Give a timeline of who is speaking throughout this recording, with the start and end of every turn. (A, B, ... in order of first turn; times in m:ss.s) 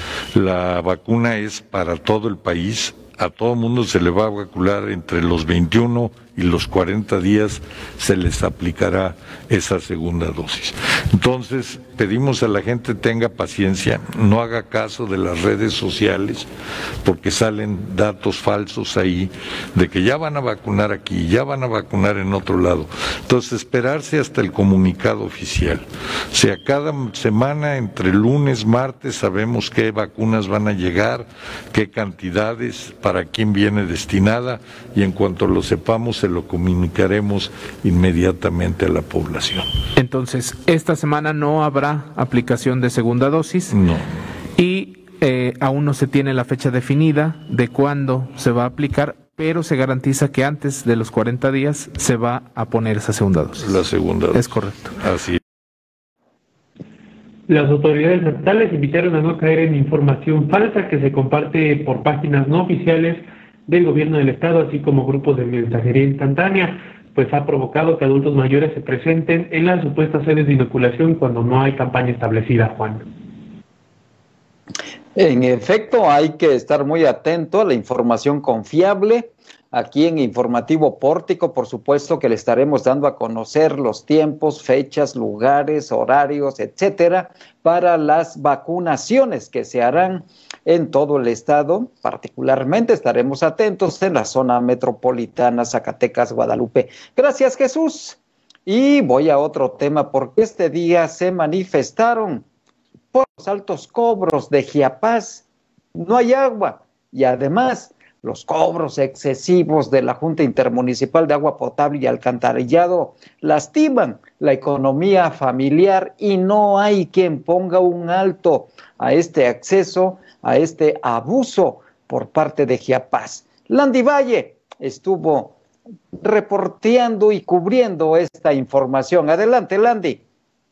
0:00.3-0:16.5 A
0:17.0-0:39.7 A
0:40.0-0:43.8 B
0:43.7-0:44.0 A
0:44.6-0:53.7 B
0:53.6-0:55.4 A
0:54.3-0:54.9 B
0:57.5-1:13.0 C
1:15.2-1:42.4 D
1:43.1-1:45.4 D
1:45.9-2:05.6 D
2:06.2-2:10.2 D